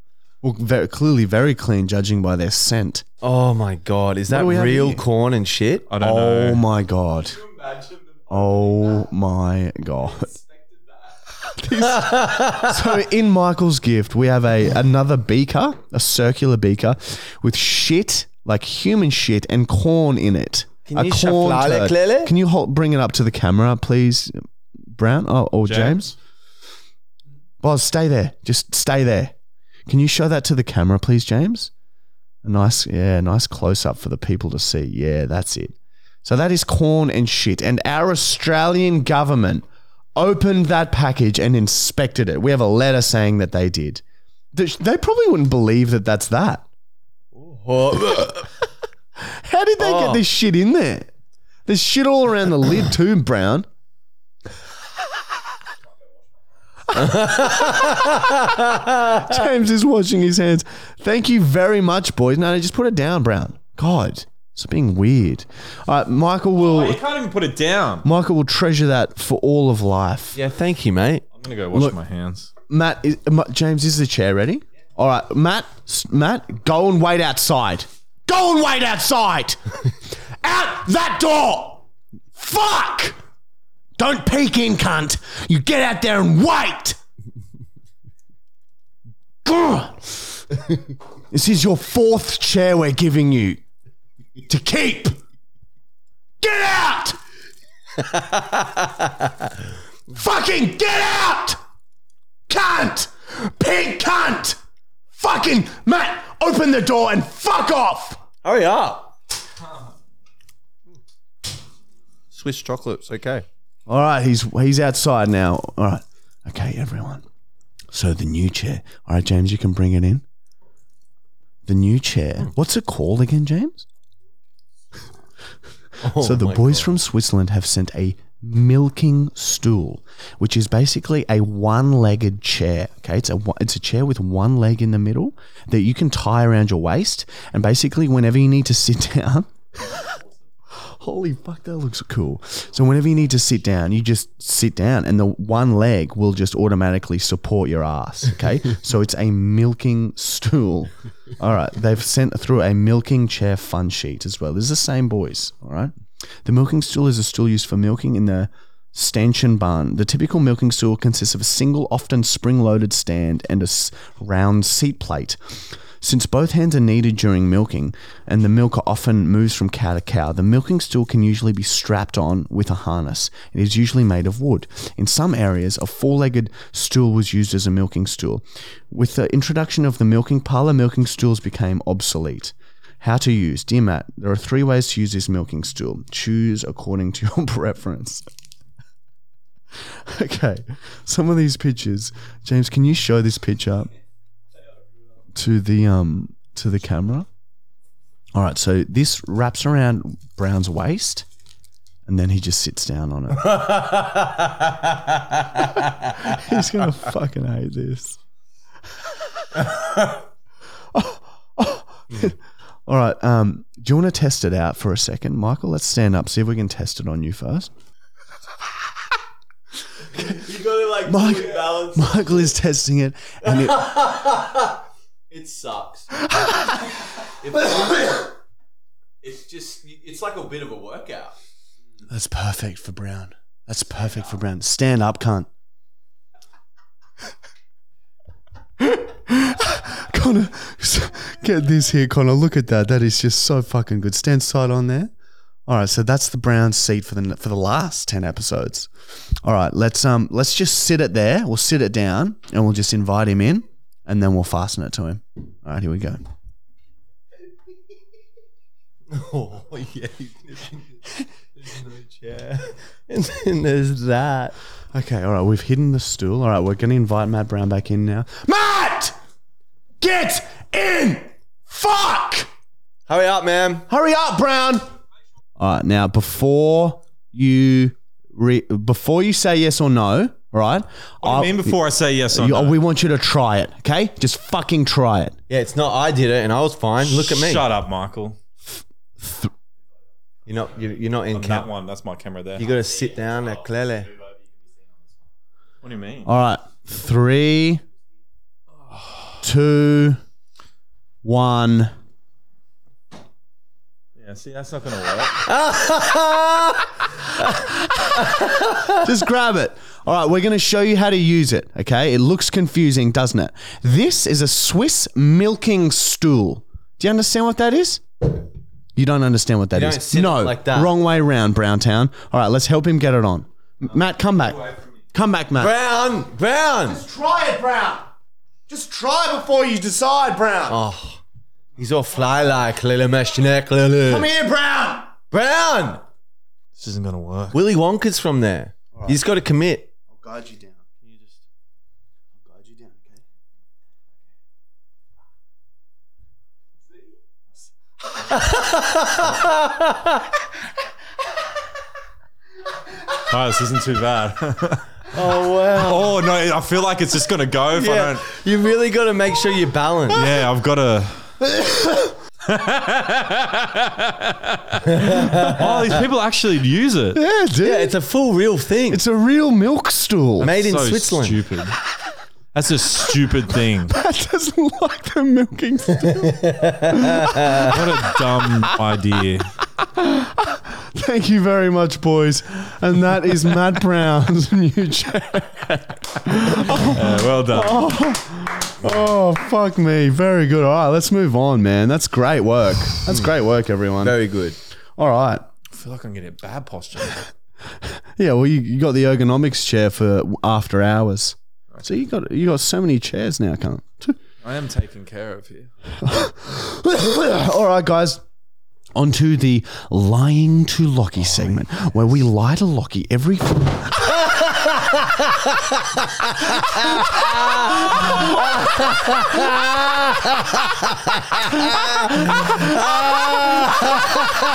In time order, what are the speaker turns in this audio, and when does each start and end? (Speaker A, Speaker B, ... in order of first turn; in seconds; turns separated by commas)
Speaker A: 0.4-3.0, Speaker B: 3.2-5.9, Speaker A: 4.3-5.0, Speaker C: 5.9-6.6, Speaker A: 6.0-7.4, Speaker A: 8.3-10.4, Speaker A: 11.4-24.3, Speaker B: 11.8-12.7, Speaker B: 20.9-22.3, Speaker A: 24.9-26.1, Speaker C: 25.6-26.0, Speaker A: 27.6-29.3, Speaker A: 29.9-31.7, Speaker A: 32.4-39.6, Speaker A: 40.1-46.6, Speaker B: 47.3-48.3, Speaker A: 48.1-48.4, Speaker A: 49.2-51.1, Speaker B: 49.8-50.2, Speaker A: 51.6-53.7, Speaker B: 56.9-59.4, Speaker A: 59.2-67.0, Speaker C: 66.6-68.0, Speaker A: 68.0-70.3, Speaker B: 70.3-71.2, Speaker C: 71.4-72.5, Speaker A: 71.7-72.0, Speaker A: 72.7-79.8, Speaker A: 80.4-83.2, Speaker A: 84.0-87.0, Speaker A: 89.4-90.2, Speaker A: 91.3-93.6, Speaker A: 94.5-95.2, Speaker A: 96.4-97.2, Speaker B: 98.1-99.1, Speaker A: 100.1-101.6, Speaker A: 102.5-104.6, Speaker A: 105.1-108.2, Speaker B: 108.4-109.1, Speaker B: 112.3-113.4, Speaker A: 113.9-117.2, Speaker A: 117.9-120.2, Speaker A: 121.7-123.8, Speaker B: 126.0-127.0, Speaker A: 126.1-140.1, Speaker A: 140.7-188.2, Speaker A: 189.9-193.9, Speaker A: 195.3-197.3, Speaker A: 198.3-201.2, Speaker A: 202.1-203.8, Speaker B: 203.5-205.7, Speaker A: 206.2-208.2, Speaker A: 210.9-212.3, Speaker A: 212.8-217.7, Speaker A: 220.1-220.4, Speaker B: 220.2-222.5, Speaker A: 221.0-223.9, Speaker B: 223.4-226.1, Speaker A: 226.3-226.7, Speaker B: 227.3-228.3, Speaker B: 229.2-231.3, Speaker A: 232.1-235.5, Speaker A: 238.8-245.1, Speaker A: 245.7-248.9, Speaker A: 249.4-256.2, Speaker B: 259.1-261.0, Speaker B: 261.6-264.5, Speaker A: 264.9-269.1, Speaker A: 270.0-272.5, Speaker B: 273.1-273.9, Speaker A: 273.9-274.9, Speaker A: 275.6-281.8, Speaker C: 281.2-282.8, Speaker A: 282.3-285.4, Speaker B: 285.5-287.7, Speaker C: 287.0-288.4, Speaker A: 289.2-289.5, Speaker B: 290.4-291.7, Speaker C: 291.3-292.7, Speaker B: 292.6-294.1, Speaker C: 295.8-296.3, Speaker A: 296.2-297.8, Speaker A: 299.4-300.2, Speaker A: 301.2-301.9, Speaker C: 304.2-305.4, Speaker B: 305.5-306.9, Speaker B: 308.2-308.9, Speaker A: 308.9-318.3, Speaker A: 318.9-325.7, Speaker B: 319.7-320.9, Speaker B: 325.6-327.0, Speaker A: 326.9-328.1, Speaker A: 328.7-330.8, Speaker B: 330.7-331.2, Speaker B: 331.8-334.3, Speaker A: 334.1-335.1, Speaker B: 335.3-336.0, Speaker C: 336.8-337.6, Speaker B: 337.5-339.9, Speaker A: 340.1-340.8, Speaker A: 342.4-343.2, Speaker B: 348.3-350.2, Speaker C: 353.2-354.9, Speaker B: 355.1-356.1, Speaker C: 355.7-358.2, Speaker B: 357.7-360.3, Speaker C: 360.1-361.3, Speaker A: 361.5-362.1, Speaker C: 362.4-367.2, Speaker B: 364.9-365.9, Speaker A: 367.1-367.9, Speaker B: 367.6-369.0, Speaker A: 368.9-370.5, Speaker B: 370.4-371.6, Speaker C: 370.4-371.8, Speaker C: 372.5-373.9, Speaker A: 373.9-377.8, Speaker B: 376.2-377.7, Speaker C: 377.6-379.6, Speaker A: 379.9-394.2, Speaker C: 386.7-388.1, Speaker B: 394.0-394.6, Speaker A: 395.0-395.4, Speaker C: 395.7-397.3, Speaker A: 397.8-404.2, Speaker C: 404.4-405.7, Speaker A: 406.0-408.2, Speaker A: 408.9-414.3, Speaker A: 416.8-417.1, Speaker A: 417.9-418.7, Speaker A: 421.6-424.2